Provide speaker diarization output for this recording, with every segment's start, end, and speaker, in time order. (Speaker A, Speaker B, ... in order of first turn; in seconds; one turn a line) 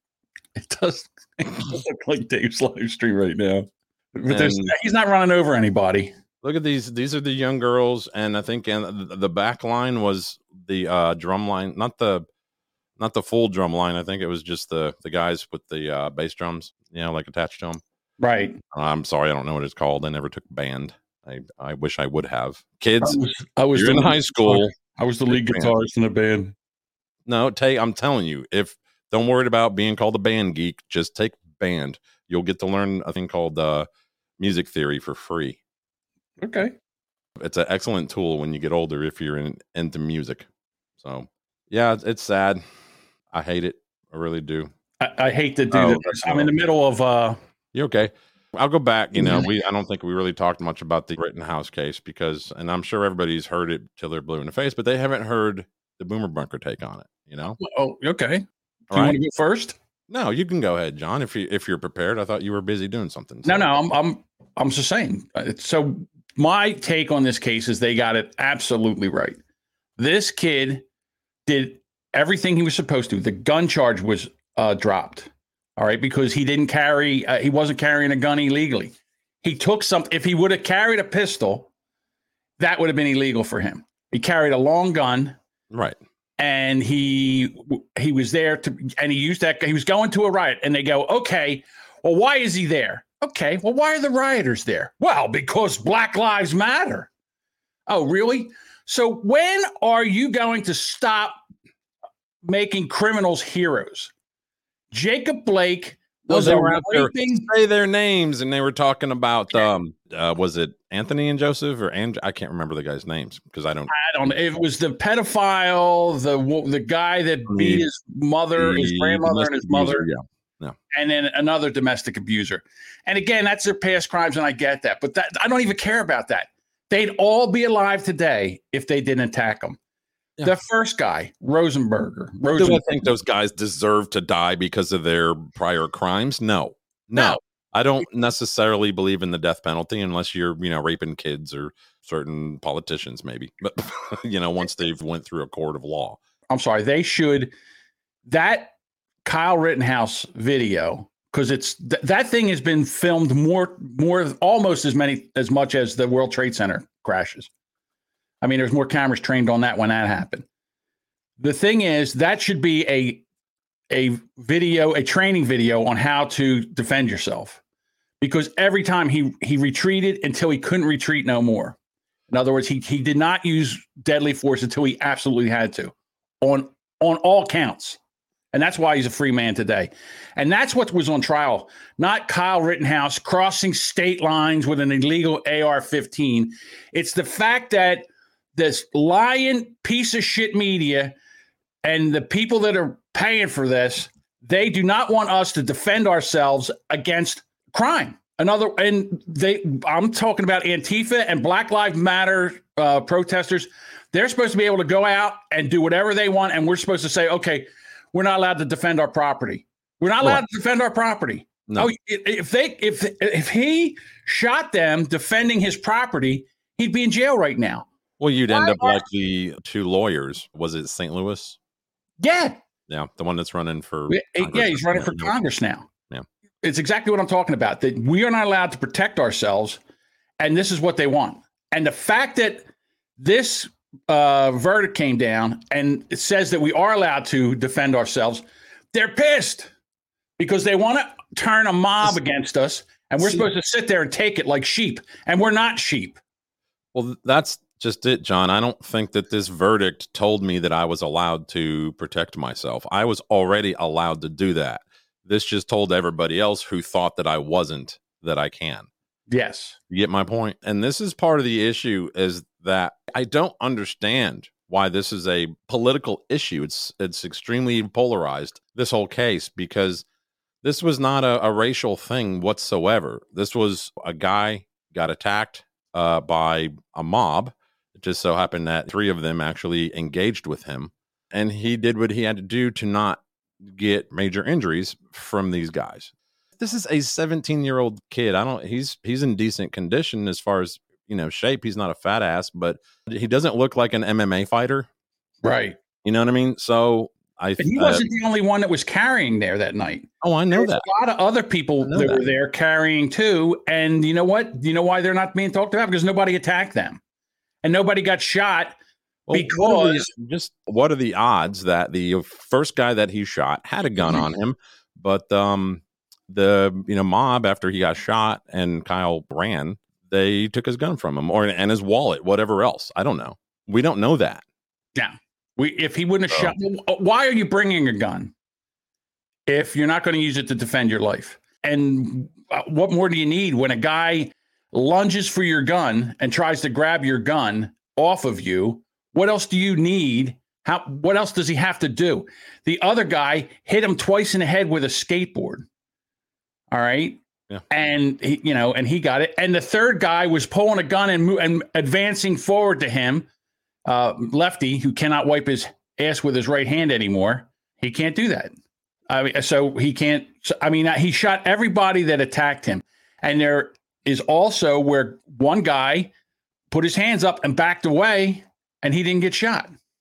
Speaker A: 0.6-6.1
Speaker B: 4.3-4.7
Speaker B: 6.4-12.3
Speaker B: 13.0-17.8
Speaker A: 18.2-18.6
Speaker B: 18.7-23.2
Speaker A: 23.0-26.5
Speaker B: 23.7-24.7
Speaker B: 25.3-25.8
Speaker B: 27.3-33.9
Speaker B: 34.4-35.6
Speaker A: 36.4-36.7
Speaker B: 37.4-40.5
Speaker B: 41.0-42.6
Speaker B: 43.3-44.7
Speaker A: 45.0-47.4
Speaker B: 45.7-46.5
Speaker B: 47.7-57.6
Speaker A: 49.2-49.5
Speaker A: 57.6-59.8
Speaker B: 58.9-59.2
Speaker B: 60.1-63.7
Speaker A: 63.5-69.4
Speaker A: 70.0-70.8
Speaker A: 71.5-81.7
Speaker A: 82.6-85.4
Speaker B: 85.7-86.0
Speaker A: 86.4-97.1
Speaker A: 97.9-101.4
Speaker A: 102.4-104.1
Speaker A: 104.9-107.5
Speaker B: 106.3-113.9
Speaker A: 113.9-120.0
Speaker B: 117.5-117.8
Speaker B: 118.5-120.8
Speaker A: 120.9-129.8
Speaker A: 130.4-132.9
Speaker B: 132.6-146.2
Speaker A: 146.5-147.5
Speaker A: 148.3-148.7
Speaker A: 149.2-157.5
Speaker A: 158.4-160.4
Speaker A: 161.4-163.2
Speaker A: 163.9-167.6
Speaker A: 168.2-171.8
Speaker A: 172.3-178.0
Speaker A: 178.5-191.1
Speaker A: 191.8-217.9
Speaker B: 218.2-221.6
Speaker A: 218.5-219.0
Speaker A: 222.2-222.6
Speaker B: 222.9-225.3
Speaker A: 224.1-225.9
Speaker A: 226.6-229.8
Speaker A: 230.4-232.7
Speaker A: 233.2-239.7
Speaker A: 240.4-246.2
Speaker B: 243.2-243.5
Speaker B: 246.9-258.9
Speaker A: 259.3-259.8
Speaker B: 259.9-270.1
Speaker B: 270.6-294.9
Speaker A: 295.4-295.8
Speaker B: 296.0-298.0
Speaker A: 297.6-307.0
Speaker B: 300.2-300.9
Speaker B: 301.8-302.3
Speaker A: 307.6-308.8
Speaker B: 309.3-324.4
Speaker A: 309.3-310.1
Speaker A: 325.0-328.3
Speaker B: 326.3-326.6
Speaker A: 329.5-345.7
Speaker A: 346.7-353.3
Speaker A: 353.9-358.5
Speaker A: 359.1-366.1
Speaker A: 366.7-369.7